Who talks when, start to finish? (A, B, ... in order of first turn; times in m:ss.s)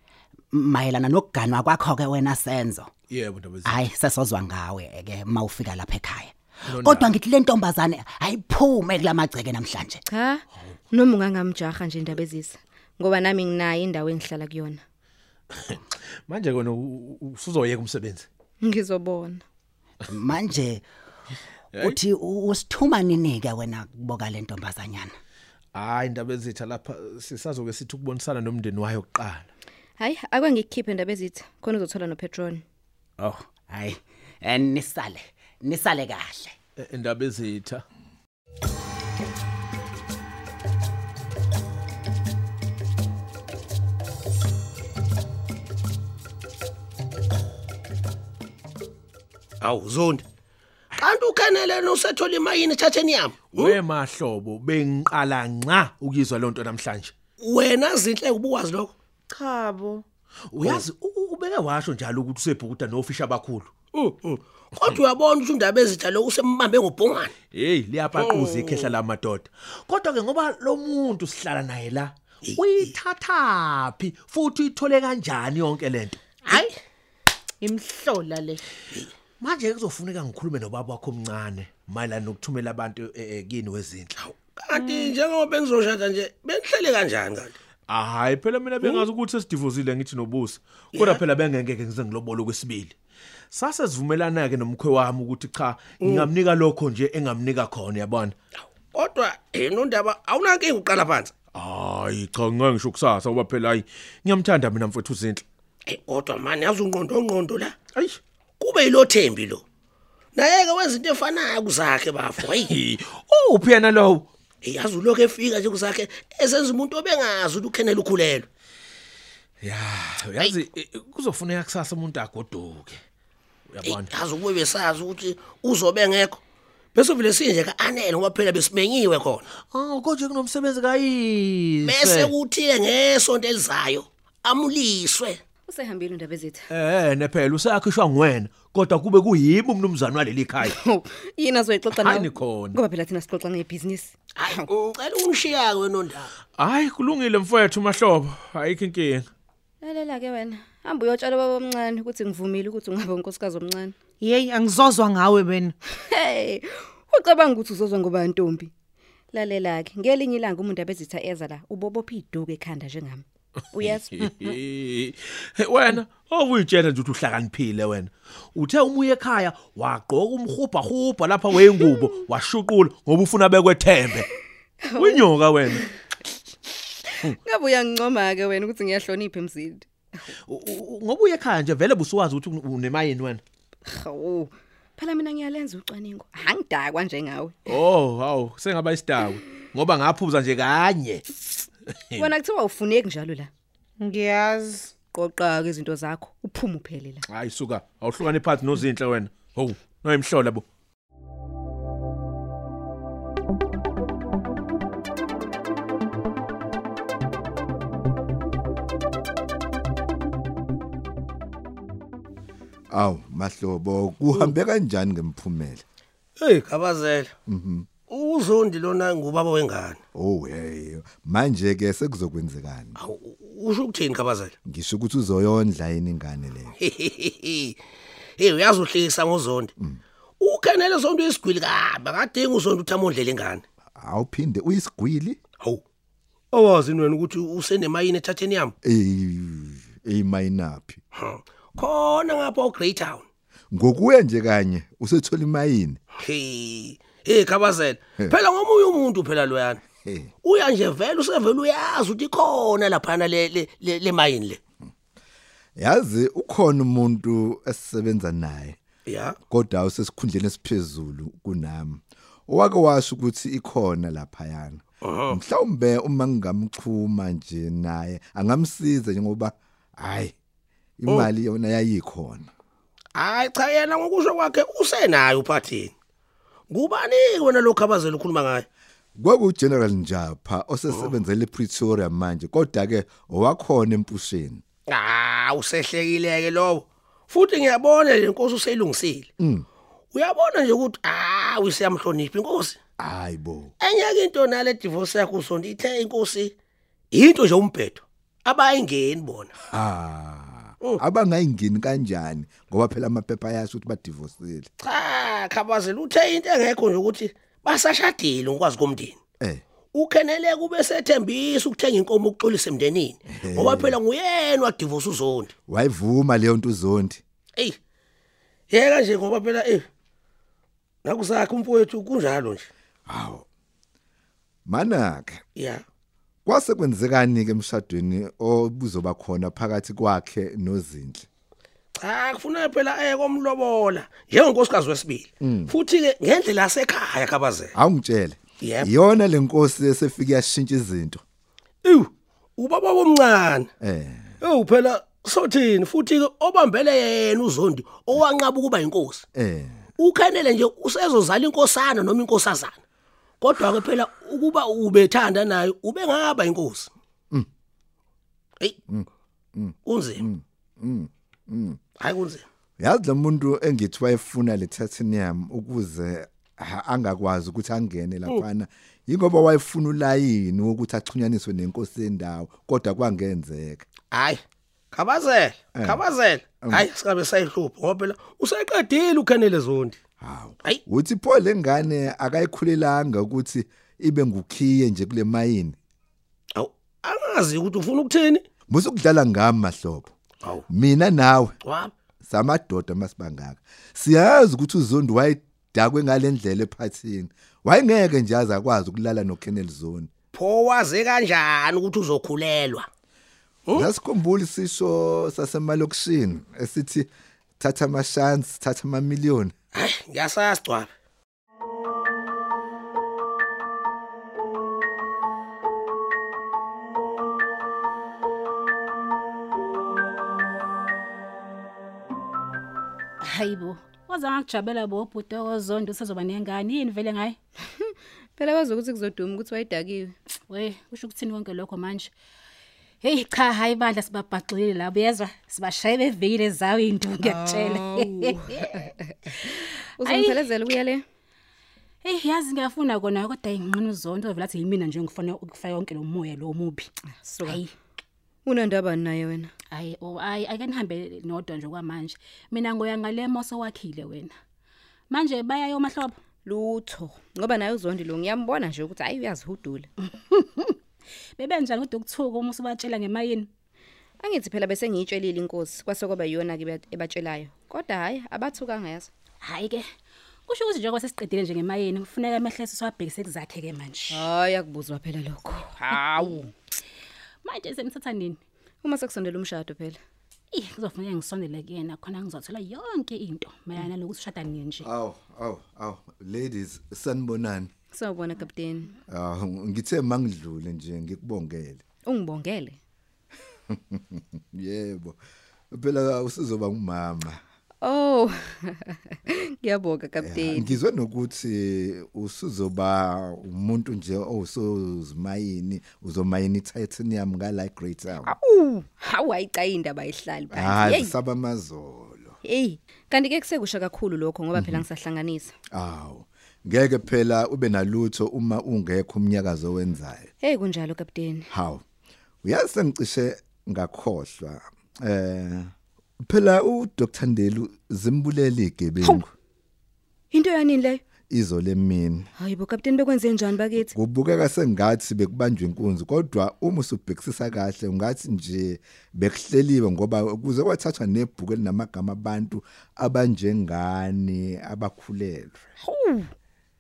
0:00.5-0:02.9 A
0:03.1-0:03.9 B
0:03.6-0:10.0 A
0:06.6-0:07.2 B
0:10.1-0:14.8 C
0:15.5-0:18.3 B
0:18.6-0:19.4 C
0:20.1-0:20.8 A
0:21.7-0:22.0 B
0:21.8-0:25.1 A
0:25.7-0:29.5 B
0:30.0-0:32.6 C
0:33.2-0:36.5 A
0:36.8-0:37.8 B
0:49.6-0:50.2 D
0:51.0-0:53.8 D
0:53.5-0:57.1 B
0:57.4-0:58.9 D
0:59.3-1:00.0 E
1:00.5-1:03.7 B
1:00.6-1:00.8 D
1:03.9-1:07.3 D
1:07.5-1:16.2 B
1:08.2-1:09.0 D
1:12.4-1:12.9 D
1:16.4-1:16.8 E
1:17.6-1:18.6 E
1:19.4-1:24.1 B
1:24.2-1:27.5 D
1:24.7-1:25.1 E
1:27.9-1:33.0 B
1:30.9-1:31.2 D
1:33.5-1:38.4 B
1:36.0-1:36.3 D
1:38.9-1:41.3 D
1:41.5-1:45.4 B
1:45.9-1:47.8 D
1:48.6-1:49.6 D
1:50.4-1:52.7 D
1:52.5-1:54.3 B
1:54.6-1:58.5 D
1:59.6-2:03.0 B
2:03.7-2:04.1 B
2:03.8-2:06.4 D
2:07.0-2:09.4 D
2:09.7-2:12.3 B
2:11.8-2:15.4 D
2:15.7-2:16.7 C
2:16.7-2:20.8 B
2:20.6-2:24.7 C
2:22.0-2:22.8 B
2:24.4-2:26.3 D
2:26.6-2:29.3 B
2:29.8-2:34.0 C
2:34.2-2:35.8 E
2:35.9-2:38.7 C
2:39.3-2:44.5 C
2:43.8-2:54.3 B
2:54.8-2:55.3 C
2:55.0-2:55.9 B
2:57.2-2:59.9 C
3:00.5-3:03.4 B
3:03.9-3:07.6 C
3:07.7-3:12.3 B
3:12.2-3:13.5 C
3:14.0-3:14.9 E
3:15.1-3:17.2 C
3:17.3-3:20.6 B
3:32.9-3:35.8 F
3:36.4-3:37.3 D
3:37.5-3:37.9 F
3:38.1-3:40.0 D
3:40.1-3:43.0 F
3:43.0-3:44.6 D
3:44.6-3:46.8 F
3:46.8-3:47.8 D
3:48.4-3:49.7 D
3:50.4-3:53.6 D
3:54.0-3:55.4 F
3:56.5-3:58.7 D
3:58.8-4:01.0 F
4:01.2-4:03.3 D
4:03.7-4:06.0 F
4:06.2-4:09.8 D
4:10.0-4:10.3 F
4:10.4-4:14.6 D
4:15.8-4:18.8 F
4:19.1-4:19.4 D
4:19.5-4:30.4 F
4:25.0-4:25.4 D
4:31.0-4:32.5 F
4:33.2-4:35.9 D
4:36.7-4:38.6 D
4:39.2-4:44.6 F
4:44.9-4:49.3 D
4:49.4-4:49.7 F
4:50.1-4:52.8 D
4:53.0-4:53.7 F
4:53.8-4:56.6 D
4:57.1-4:59.5 D
4:59.7-5:04.7 F
5:04.8-5:09.2 D
5:09.9-5:15.5 D
5:13.3-5:14.0 F
5:15.7-5:17.2 F
5:18.7-5:19.9 D
5:21.0-5:22.7 D
5:23.1-5:23.5 F
5:24.7-5:25.4 F
5:25.6-5:25.8 D
5:26.5-5:31.3 F
5:32.0-5:37.7 D
5:35.4-5:35.8 F
5:37.8-5:41.2 F
5:38.6-5:38.9 D
5:41.8-5:43.7 D
5:43.8-5:44.3 F
5:44.4-5:49.2 D
5:49.4-5:49.8 F
5:50.0-5:52.8 D
5:53.4-5:56.9 D
5:58.9-6:01.8 F
5:59.9-6:00.2 D
6:02.0-6:02.4 D
6:02.8-6:13.8 F
6:14.1-6:20.0 D
6:15.8-6:16.0 F
6:16.6-6:16.9 F
6:20.2-6:25.8 F
6:26.6-6:28.4 D
6:28.7-6:30.1 F
6:30.7-6:31.5 F
6:31.6-6:31.9 D
6:32.2-6:40.1 F
6:40.3-6:42.9 D
6:43.8-6:47.1 F
6:47.6-6:49.5 F
6:49.7-6:50.9 D
7:03.2-7:07.4 G
7:07.7-7:10.2 C
7:10.5-7:12.1 G
7:13.0-7:18.6 G
7:17.2-7:21.0 C
7:20.0-7:20.5 G
7:22.0-7:26.9 G
7:27.1-7:27.6 C
7:27.4-7:27.7 G
7:28.4-7:29.5 C
7:29.7-7:34.3 G
7:35.1-7:36.2 G
7:36.4-7:39.9 C
7:40.3-7:40.8 G
7:41.4-7:43.5 G
7:44.2-7:49.1 C
7:49.4-7:49.9 G
7:50.5-7:54.2 G
7:54.1-7:56.5 C
7:55.9-7:56.4 G
7:57.4-7:58.4 G
7:58.8-8:00.0 C
8:00.5-8:04.9 G
8:04.8-8:07.7 F
8:07.9-8:09.0 C
8:09.1-8:11.8 F
8:12.0-8:12.8 C
8:13.7-8:15.2 F
8:15.7-8:17.4 F
8:17.8-8:20.8 C
8:20.2-8:28.4 F
8:28.3-8:31.2 C
8:30.5-8:32.4 F
8:32.4-8:35.5 C
8:34.6-8:34.8 F
8:35.7-8:40.3 F
8:40.4-8:41.5 C
8:41.5-8:41.8 F
8:42.4-8:45.7 F
8:46.2-8:49.3 F
8:50.3-8:51.0 C
8:51.3-8:52.3 F
8:52.4-8:53.9 C
8:53.8-9:05.6 F
9:05.8-9:06.3 C